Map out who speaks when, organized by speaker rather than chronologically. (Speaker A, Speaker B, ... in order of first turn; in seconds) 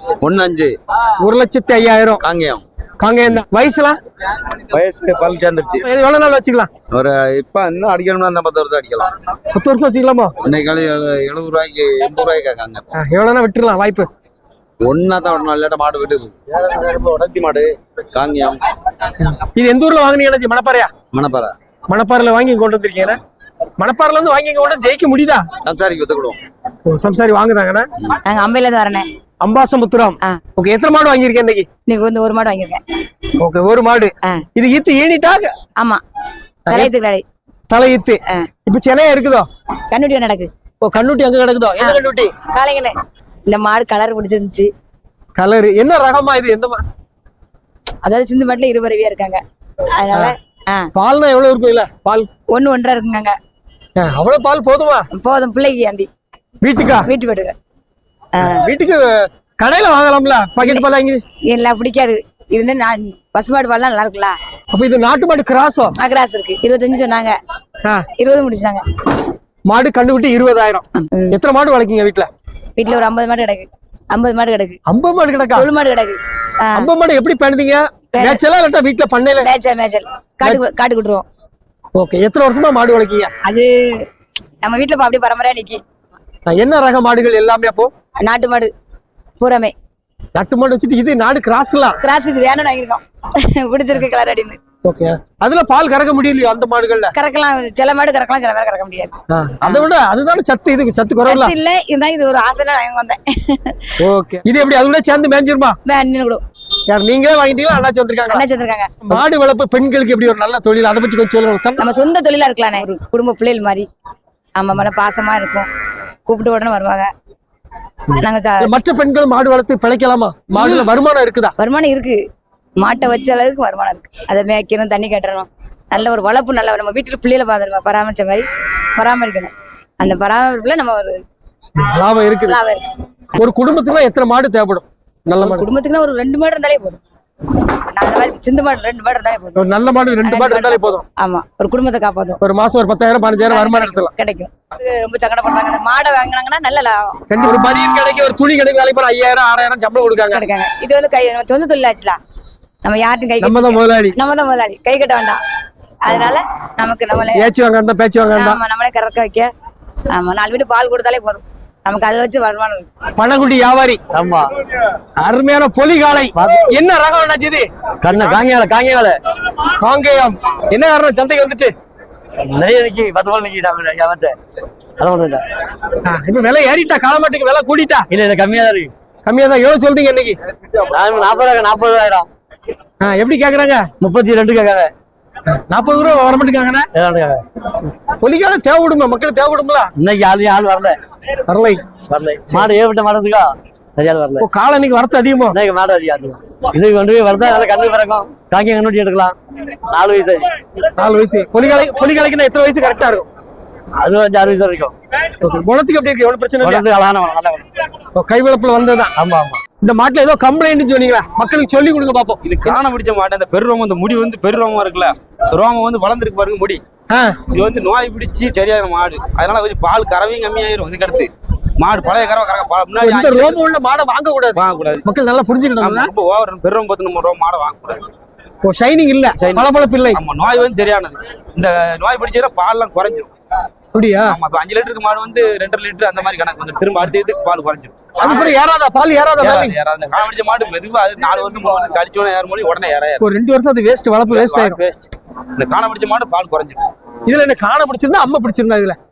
Speaker A: 0.2-0.7, 2.2-2.6, 4.7-5.8, 6.9-9.1, 10.4-12.8, 14.8-18.6, 21.1-21.5, 25.6-26.4
Speaker B: 1.2-2.2, 3.0-4.0, 5.8-6.7, 9.5-10.3, 12.9-14.1, 19.2-20.9, 21.9-23.2, 23.8-25.4, 26.9-27.9, 29.4-31.7, 33.4-35.5, 36.7-36.9, 37.7-39.5, 40.8-42.3, 45.4-46.8, 50.9-52.3, 54.0-55.1, 56.6-57.1, 58.4-61.2, 64.7-65.9, 69.7-72.3, 74.9-75.7, 76.8-79.5, 81.9-83.3, 86.5-87.9, 90.3-92.0, 94.8-97.1, 99.3-101.5, 104.0-105.8, 106.9-108.4, 109.0-111.8, 118.1-121.5, 131.8-132.6, 133.3-135.6, 139.6-141.0, 142.4-144.1, 147.3-150.4, 153.4-154.1, 157.3-158.6, 163.2-164.0, 165.2-167.7, 169.8-171.7, 176.0-178.1, 179.2-180.4, 183.0-183.9, 185.5-186.9, 188.1-189.9, 191.5-191.8, 194.4-195.6, 200.9-203.2, 205.4-206.8, 208.1-209.1, 209.8-212.4, 217.1-217.4, 223.0-226.1, 228.6-230.2, 233.9-234.3, 238.2-239.7, 243.2-244.8, 247.3-249.0
Speaker C: 28.3-29.1, 31.9-32.8, 36.7-37.2, 39.9-40.5, 42.5-43.0, 43.5-44.7, 48.0-49.4, 50.0-50.9, 52.5-53.3, 55.1-56.1, 57.0-57.5, 58.4-58.6, 61.5-64.4, 66.0-67.3, 68.2-68.8, 71.0-71.3, 72.8-74.8, 75.6-76.8, 79.4-81.2, 83.4-84.1, 84.6-85.8, 88.2-88.7, 89.4-89.7, 92.0-94.6, 97.1-99.9, 101.2-103.9, 105.8-106.4, 108.3-108.9, 111.8-113.9, 114.5-115.7, 116.2-117.1, 118.2-118.7, 120.6-120.8, 121.6-122.2, 122.8-131.2, 132.5-132.9, 135.4-137.0, 137.9-139.7, 140.2-142.4, 143.5-147.1, 150.3-152.2, 152.8-155.4, 156.1-157.4, 158.3-159.5, 160.1-162.9
Speaker D: 164.1-164.4, 166.3-166.7, 168.0-169.2, 172.4-174.3, 175.0-175.4, 178.1-178.9, 180.8-182.3, 184.0-184.9, 186.9-187.4, 190.0-191.0, 192.1-194.4, 195.5-199.3, 199.9-200.5, 204.0-204.9, 206.6-207.7, 209.2-209.6
Speaker E: 212.4-216.8, 217.5-223.6, 224.5-225.0, 225.8-228.1, 229.3-233.3, 234.2-238.5, 239.4-243.2, 244.3-246.8